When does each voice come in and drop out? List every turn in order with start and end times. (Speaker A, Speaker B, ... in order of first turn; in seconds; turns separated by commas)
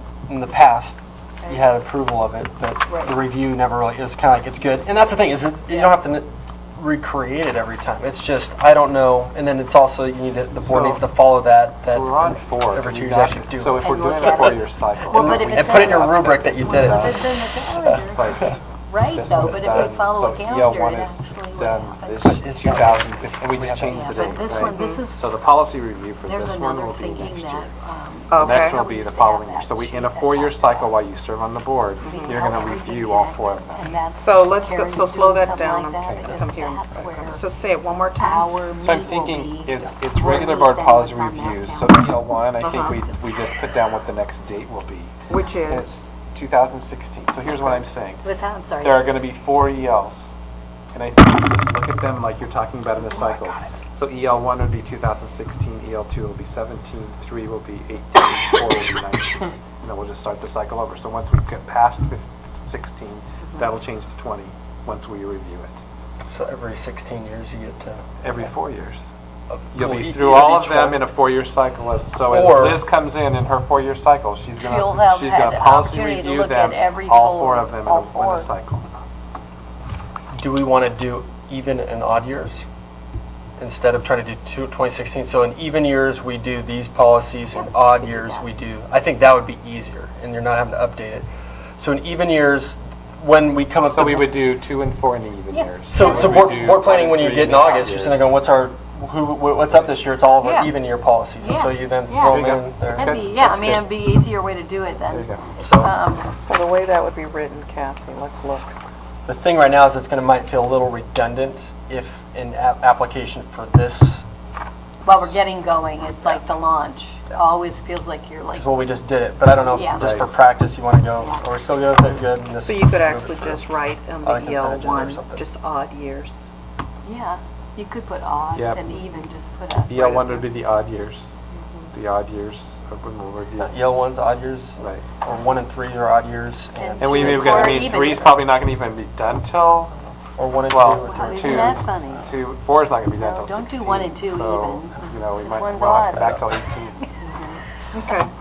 Speaker A: 0.3-17.9, Speaker B: 10.6-11.1, Speaker B: 11.8-17.3, Speaker C: 13.8-22.4, Speaker B: 17.9-18.6, Speaker B: 19.1-27.7, Speaker A: 22.2-24.1, Speaker C: 23.9-25.4, Speaker D: 24.6-25.0, Speaker C: 26.2-31.0, Speaker D: 28.3-28.8, Speaker B: 28.4-34.0, Speaker D: 32.0-32.4, Speaker C: 32.0-37.4, Speaker D: 34.1-38.6, Speaker B: 36.0-36.4, Speaker C: 38.2-43.8, Speaker B: 38.8-45.1, Speaker D: 42.6-43.0, Speaker D: 45.3-45.9, Speaker B: 45.7-48.2, Speaker C: 48.2-49.1, Speaker B: 48.8-50.3, Speaker B: 50.9-65.8, Speaker A: 66.3-68.5, Speaker B: 68.2-69.0, Speaker A: 69.5-71.1, Speaker B: 69.7-78.9, Speaker A: 72.3-72.8, Speaker C: 74.6-78.5, Speaker A: 80.4-82.6, Speaker A: 83.6-91.3, Speaker C: 87.5-88.5, Speaker A: 91.8-94.5, Speaker B: 93.8-98.3, Speaker C: 95.5-96.9, Speaker A: 95.9-103.1, Speaker D: 100.5-100.7, Speaker C: 101.4-106.3, Speaker B: 102.2-103.9, Speaker B: 105.1-105.4, Speaker A: 105.6-105.9, Speaker D: 106.2-108.8, Speaker A: 109.3-114.2, Speaker C: 115.0-118.8, Speaker A: 118.5-123.6, Speaker C: 119.7-120.1, Speaker B: 119.9-120.3, Speaker D: 122.6-126.5, Speaker A: 124.2-125.4, Speaker C: 127.0-130.5, Speaker B: 128.6-128.9, Speaker B: 129.9-131.2, Speaker B: 131.9-133.8, Speaker A: 133.6-138.1, Speaker B: 134.8-135.1, Speaker C: 136.8-138.4, Speaker B: 137.0-139.9, Speaker A: 140.4-141.9, Speaker B: 140.7-147.1, Speaker C: 141.1-142.3, Speaker C: 143.2-146.4, Speaker A: 146.2-146.5, Speaker C: 147.0-147.6, Speaker D: 147.9-148.3